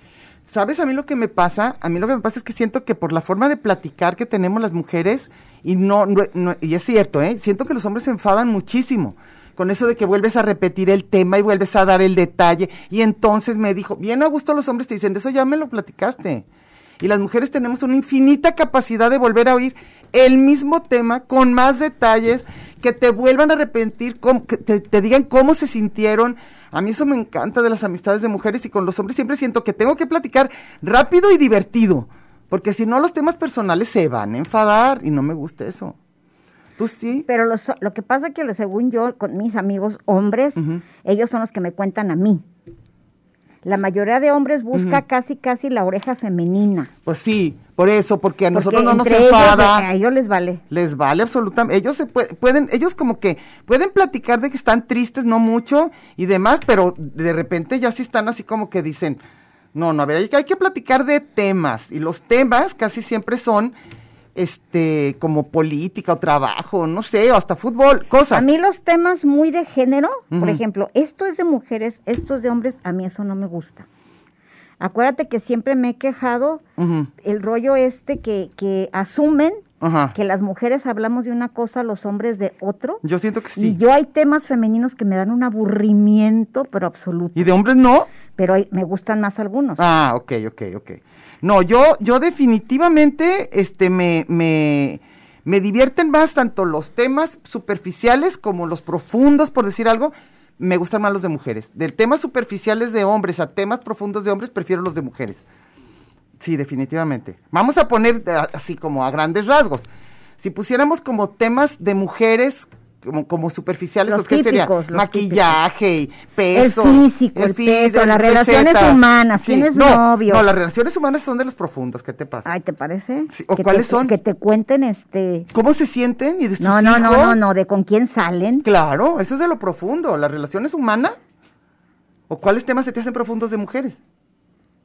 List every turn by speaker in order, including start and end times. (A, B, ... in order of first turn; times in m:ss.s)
0:00.5-0:16.4 A
0:17.0-0:36.0 A
0:36.8-0:37.2 A
0:37.3-0:42.4 B
0:40.6-0:40.8 A
0:43.6-0:46.9 B
0:44.7-0:45.0 A
0:47.0-0:49.9 A
0:48.5-0:50.6 B
0:50.7-0:59.2 A
0:59.7-1:03.7 A
1:04.3-1:08.4 A
1:08.3-1:13.8 B
1:10.3-1:10.6 A
1:14.8-1:16.6 B
1:16.8-1:17.1 A
1:17.2-1:23.0 B
1:19.8-1:20.1 A
1:23.0-1:23.8 A
1:23.6-1:27.5 B
1:27.3-1:28.1 A
1:28.4-1:29.8 B
1:29.8-1:45.4 A
1:46.4-1:49.8 A
1:50.4-2:02.5 A
1:54.1-1:55.6 B
1:56.5-2:00.4 B
2:02.4-2:05.5 B
2:03.3-2:04.1 A
2:05.5-2:07.4 A
2:06.6-2:08.6 B
2:08.6-2:11.2 A
2:12.3-2:14.0 A